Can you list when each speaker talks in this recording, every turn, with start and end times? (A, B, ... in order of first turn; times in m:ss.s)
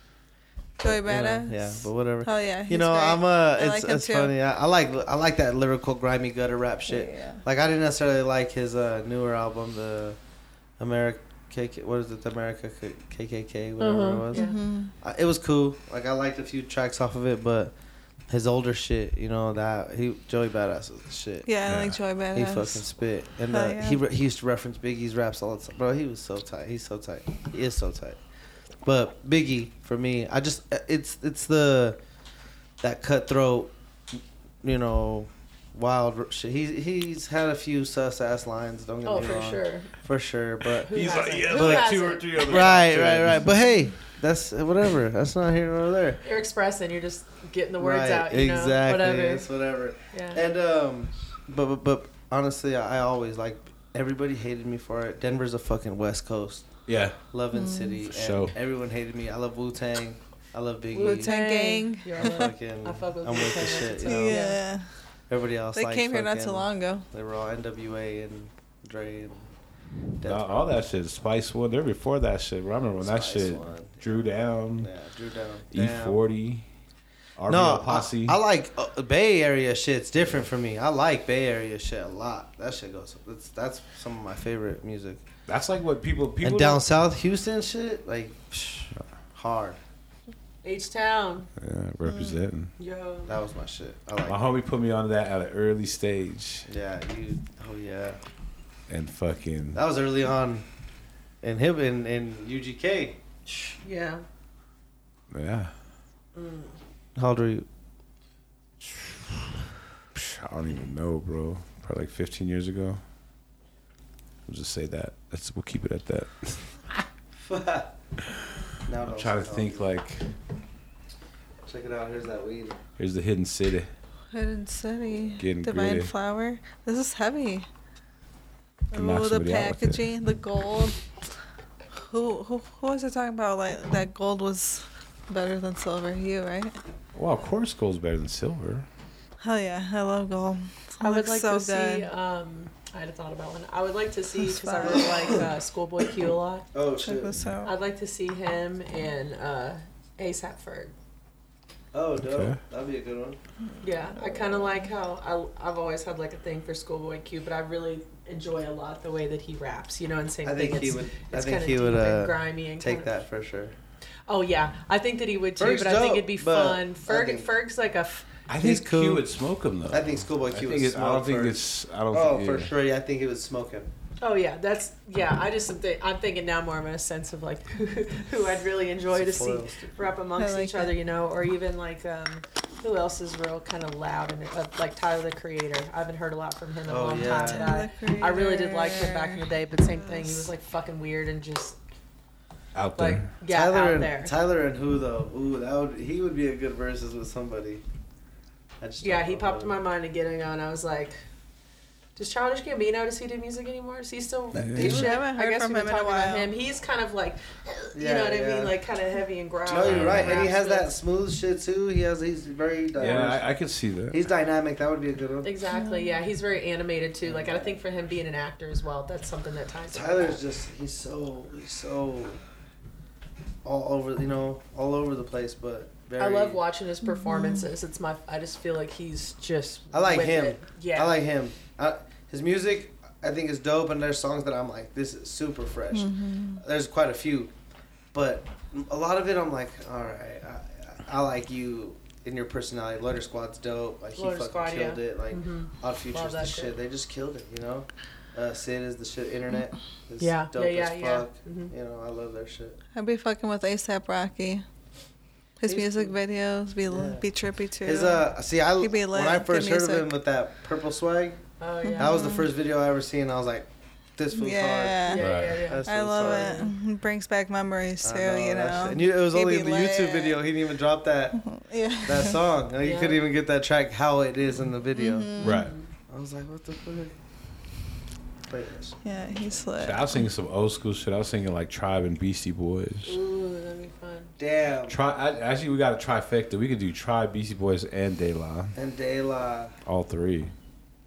0:00.8-0:04.3 A
0:00.8-0:10.2 B
0:06.9-0:07.4 A
0:10.8-0:21.5 B
0:13.8-0:14.6 C
0:14.3-0:14.9 A
0:21.5-0:22.9 A
0:21.6-0:22.0 D
0:22.3-0:28.2 B
0:23.5-0:24.0 A
0:28.8-0:32.0 B
0:32.8-0:46.2 B
0:39.0-0:40.0 C
0:40.9-0:42.8 C
0:40.9-0:43.5 D
0:46.2-0:50.4 C
0:47.8-1:01.3 B
0:56.9-0:57.3 D
0:57.5-0:58.0 A
0:58.0-0:58.5 D
1:00.9-1:04.6 C
1:01.0-1:02.5 A
1:02.2-1:09.5 B
1:04.0-1:07.1 A
1:10.2-1:10.8 B
1:10.2-1:14.9 D
1:13.0-1:14.3 B
1:14.8-1:16.2 B
1:15.7-1:16.7 D
1:17.4-1:18.4 D
1:17.5-1:25.2 B
1:25.5-1:26.8 D
1:26.4-1:29.8 B
1:30.6-1:31.5 C
1:31.6-1:32.7 D
1:32.1-1:32.4 A
1:32.8-1:33.4 C
1:33.3-1:34.4 B
1:34.2-1:36.7 D
1:36.7-1:38.2 B
1:38.9-1:39.8 D
1:39.8-1:40.7 B
1:41.4-1:43.2 B
1:43.5-1:44.2 C
1:45.3-1:45.7 D
1:46.4-1:46.8 C
1:47.2-1:47.7 B
1:48.8-1:49.3 D
1:50.2-1:53.0 D
1:54.5-1:57.0 D
1:57.4-1:57.9 B
1:58.9-1:59.8 B
1:59.1-2:00.3 D
2:01.7-2:02.8 B
2:03.0-2:03.9 D
2:04.3-2:07.7 A
2:05.4-2:06.1 D
2:08.9-2:11.3 A
2:08.9-2:10.0 D
2:12.0-2:16.8 A
2:17.2-2:18.9 D
2:19.4-2:22.1 A
2:21.0-2:26.7 C
2:24.5-2:25.4 A
2:26.7-2:27.3 B
2:27.0-2:27.7 A
2:27.6-2:30.9 C
2:31.9-2:33.4 B
2:32.2-2:32.6 D
2:33.8-2:43.1 C
2:40.4-2:43.7 B
2:44.3-2:48.3 C
2:45.6-2:47.5 B
2:48.5-2:52.7 D
2:48.6-2:49.2 B
2:49.9-2:53.9 B
2:54.2-3:11.8 C
2:59.1-2:59.9 B
3:00.4-3:00.9 A
3:06.9-3:07.8 B
3:07.2-3:10.5 A
3:12.8-3:13.3 D
3:13.0-3:14.3 C
3:13.5-3:17.8 B
3:18.8-3:19.8 B
3:19.0-3:21.2 C
3:22.2-3:30.9 C
3:24.5-3:25.0 D
3:24.8-3:26.5 A
3:24.8-3:25.1 B
3:27.9-3:28.7 B
3:29.7-3:33.5 B
3:29.8-3:30.4 D
3:33.0-3:34.2 D
3:34.1-3:35.5 B
3:35.4-3:40.4 C
3:35.7-3:36.2 A
3:37.2-3:37.8 B
3:39.9-3:42.4 B
3:43.6-3:46.6 B
3:46.2-3:51.1 C
3:47.0-3:47.7 A
3:49.9-3:57.5 B
3:55.9-3:56.6 A
3:58.1-4:12.8 B
4:04.2-4:06.8 C
4:10.2-4:11.7 C
4:13.0-4:14.6 A
4:15.6-4:18.3 A
4:15.6-4:16.2 B
4:16.9-4:17.3 B
4:17.8-4:21.4 B
4:18.8-4:20.1 A
4:21.6-4:22.3 C
4:21.8-4:22.5 A
4:22.0-4:26.7 B
4:24.3-4:25.3 A
4:25.1-4:26.7 C
4:25.2-4:25.6 D
4:25.8-4:30.4 A
4:28.0-4:35.3 B
4:31.4-4:32.4 A
4:32.8-4:33.2 C
4:35.0-4:35.6 A
4:35.4-4:35.9 C
4:35.4-4:35.7 D
4:36.1-4:37.1 B
4:38.5-4:39.5 B
4:39.0-4:40.3 A
4:39.8-4:43.1 D
4:43.1-4:44.3 C
4:44.4-4:45.0 B
4:44.9-4:48.8 D
4:48.8-4:49.7 B
4:49.8-4:50.5 D